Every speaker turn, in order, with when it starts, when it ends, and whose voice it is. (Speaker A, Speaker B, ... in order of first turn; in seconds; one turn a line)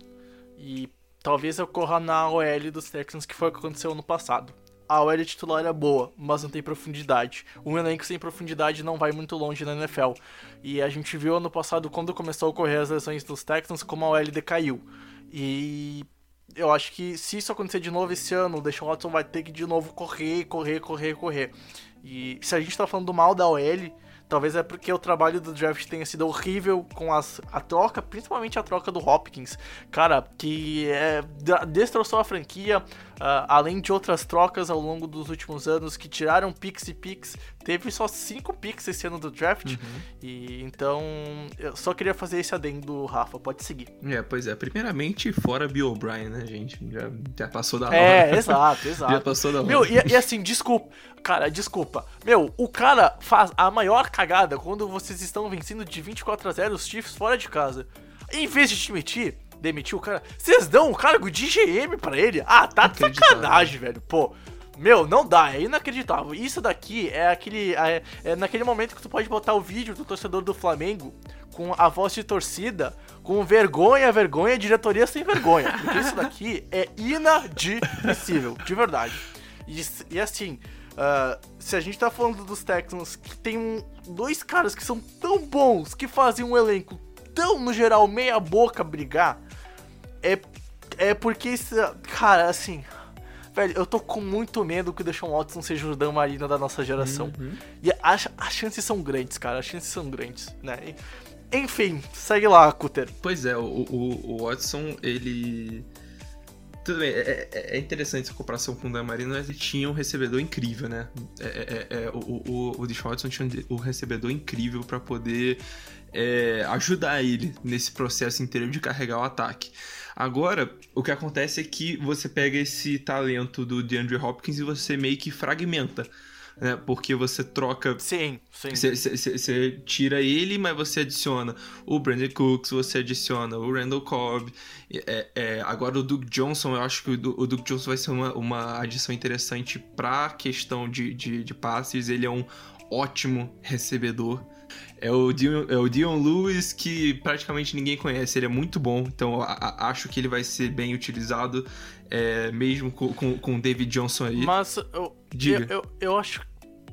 Speaker A: 0.6-43.9
Speaker B: 39.6-40.0
Speaker B: 44.0-50.2
Speaker A: 47.9-89.4
Speaker B: 62.8-63.7
Speaker A: 90.2-92.9
Speaker A: 93.5-101.0
Speaker B: 97.0-97.6
Speaker A: 101.5-103.1
Speaker B: 103.2-105.9
Speaker B: 106.8-115.6
Speaker B: 116.1-128.0
Speaker A: 128.0-128.9
Speaker B: 128.7-144.5
Speaker B: 145.0-154.5
Speaker A: 154.3-156.4
Speaker B: 155.3-155.7